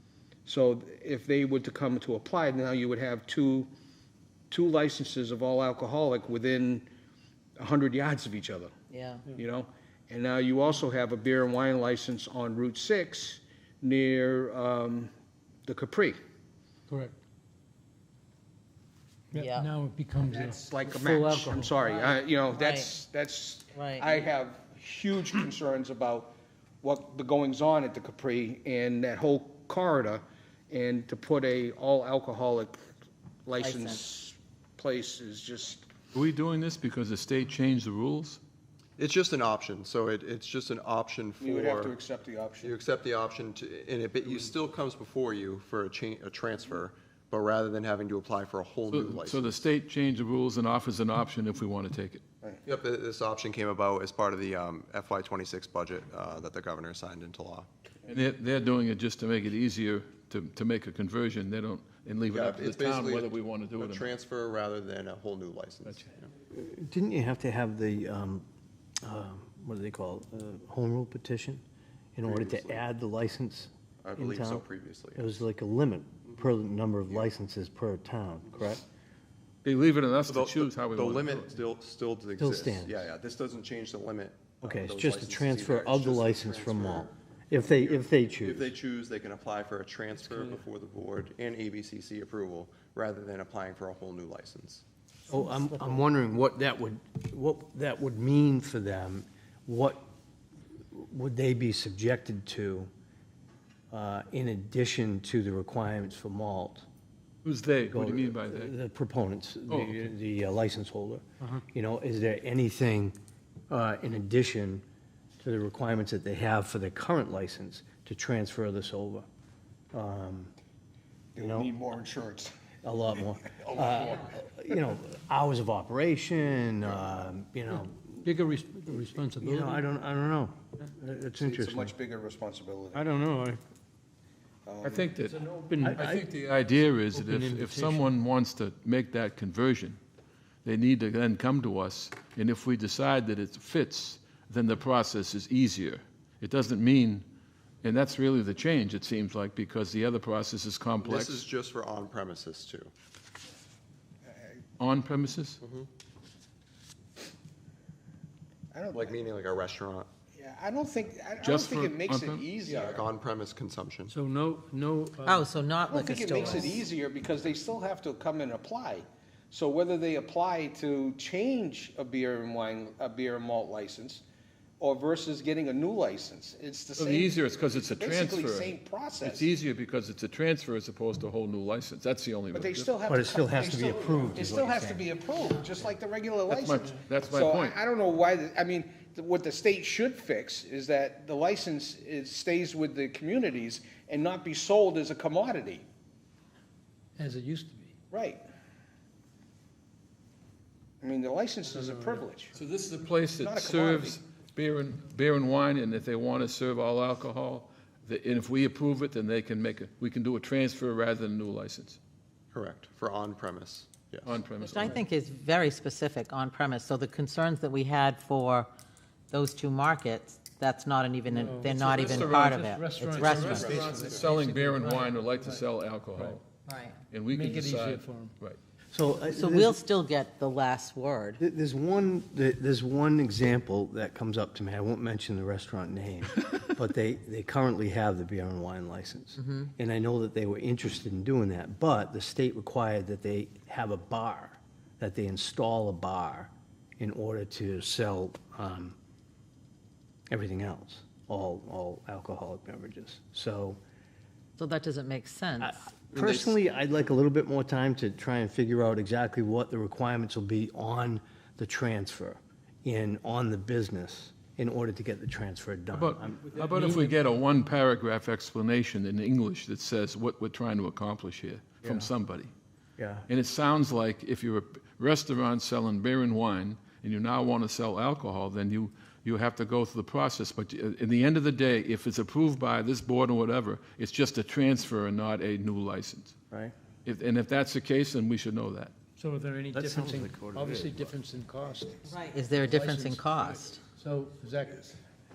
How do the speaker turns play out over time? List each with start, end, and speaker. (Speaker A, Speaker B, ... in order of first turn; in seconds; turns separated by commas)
Speaker A: 0.5-3.7, Speaker A: 4.5-6.9, Speaker A: 7.6-8.7, Speaker B: 8.9-9.3, Speaker A: 9.3-15.1, Speaker A: 15.7-16.2, Speaker C: 16.9-17.2, Speaker C: 19.3-22.1, Speaker B: 19.4-19.7, Speaker A: 20.4-32.8, Speaker B: 22.5-22.9, Speaker B: 23.7-24.1, Speaker A: 33.5-35.9, Speaker B: 33.6-34.0, Speaker D: 36.1-38.4, Speaker E: 39.0-42.0, Speaker A: 41.4-42.7, Speaker E: 42.6-49.7, Speaker D: 48.9-52.2, Speaker E: 52.6-57.7, Speaker D: 58.1-64.2, Speaker E: 62.3-66.3, Speaker F: 66.5-68.5, Speaker F: 69.0-71.6, Speaker F: 72.2-78.8, Speaker E: 72.2-72.8, Speaker E: 74.0-75.3, Speaker D: 79.6-81.5, Speaker E: 80.3-94.8, Speaker F: 82.4-83.1, Speaker F: 84.6-88.7, Speaker F: 95.3-100.1, Speaker F: 100.9-102.9, Speaker F: 103.9-106.8, Speaker D: 107.4-108.7, Speaker F: 107.8-113.2, Speaker D: 109.7-110.0, Speaker F: 113.7-114.8, Speaker F: 115.4-119.3, Speaker F: 119.9-120.5, Speaker A: 121.3-122.5, Speaker F: 121.4-121.7, Speaker F: 122.8-128.3, Speaker A: 123.7-124.2, Speaker C: 128.2-129.8, Speaker F: 129.4-131.9, Speaker A: 131.4-133.1, Speaker C: 132.9-133.6, Speaker A: 134.7-135.1, Speaker D: 134.8-135.4, Speaker C: 135.4-136.2, Speaker F: 135.8-136.2, Speaker D: 135.9-140.0, Speaker C: 137.1-138.1, Speaker D: 140.6-147.3, Speaker D: 147.8-151.5, Speaker E: 151.0-152.9, Speaker D: 154.8-155.6, Speaker E: 155.6-155.9, Speaker A: 158.7-159.2, Speaker E: 158.9-160.1, Speaker A: 160.3-163.0, Speaker D: 161.4-162.6, Speaker E: 162.7-164.1, Speaker C: 164.1-165.5, Speaker B: 165.2-166.8, Speaker A: 165.9-174.2, Speaker A: 174.8-179.5, Speaker D: 177.0-182.9, Speaker A: 182.5-195.9, Speaker F: 183.1-185.1, Speaker D: 186.5-187.8, Speaker C: 197.2-198.0, Speaker A: 198.1-198.4, Speaker A: 201.0-202.6, Speaker C: 201.7-202.3, Speaker D: 202.5-212.0, Speaker A: 203.4-204.2, Speaker E: 212.5-214.4, Speaker D: 214.2-215.0, Speaker B: 214.6-218.7, Speaker B: 219.3-223.9, Speaker C: 221.3-225.6, Speaker D: 221.7-222.6, Speaker E: 223.2-224.3, Speaker D: 223.5-226.4, Speaker C: 226.1-226.4, Speaker B: 226.7-227.0, Speaker D: 227.1-228.6, Speaker C: 227.3-228.3, Speaker F: 228.9-229.8, Speaker B: 229.3-231.4, Speaker F: 231.4-249.0, Speaker F: 250.3-253.8, Speaker B: 254.6-256.6, Speaker F: 255.6-266.6, Speaker D: 265.9-272.5, Speaker C: 266.5-267.1, Speaker F: 271.8-272.1, Speaker F: 273.0-273.3, Speaker D: 273.3-286.4, Speaker D: 287.1-288.9, Speaker C: 289.2-295.0, Speaker F: 289.7-291.1, Speaker B: 292.1-293.8